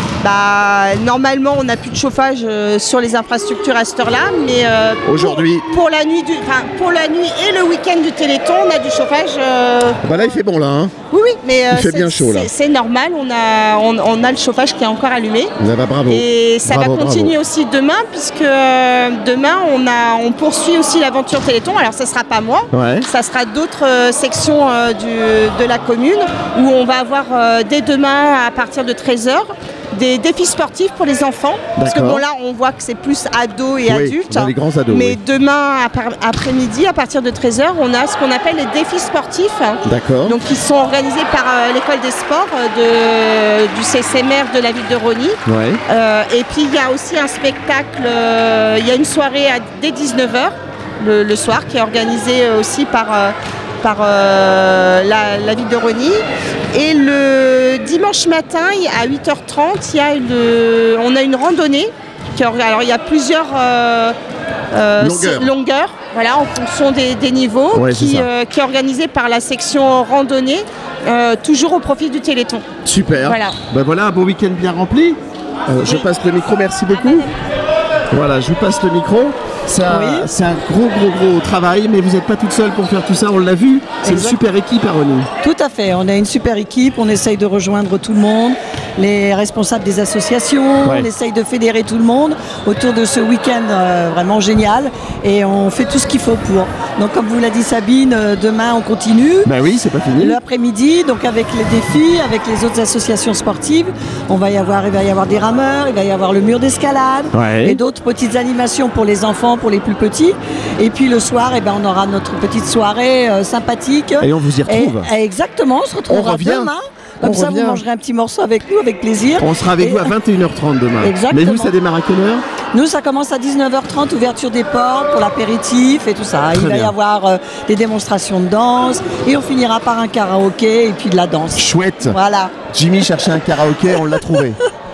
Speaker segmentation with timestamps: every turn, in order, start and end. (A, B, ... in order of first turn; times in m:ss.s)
0:00.2-0:10.0 A
0:05.0-0:05.6 B
0:10.0-0:10.9 B
0:11.1-0:15.5 A
0:11.7-0:12.5 B
0:15.6-0:17.4 B
0:16.1-1:04.2 A
0:22.7-0:23.1 B
0:31.8-0:32.2 B
0:33.8-0:35.2 B
0:39.8-0:40.4 B
0:45.4-0:45.8 B
1:04.7-1:12.6 A
1:05.0-1:05.5 B
1:07.7-1:08.3 B
1:12.8-1:17.3 B
1:13.2-1:13.6 A
1:15.8-1:16.1 A
1:18.1-1:25.3 B
1:19.9-1:20.3 C
1:24.0-1:24.4 C
1:25.4-1:39.5 C
1:30.8-1:31.1 B
1:39.4-1:40.4 B
1:40.2-2:00.1 C
1:47.3-1:47.8 B
1:54.2-1:55.1 B
1:56.1-1:57.8 B
1:59.4-2:02.4 B
2:01.0-2:01.7 C
2:02.7-2:12.6 C
2:06.5-2:06.9 B
2:11.5-2:12.2 B
2:12.7-2:14.6 B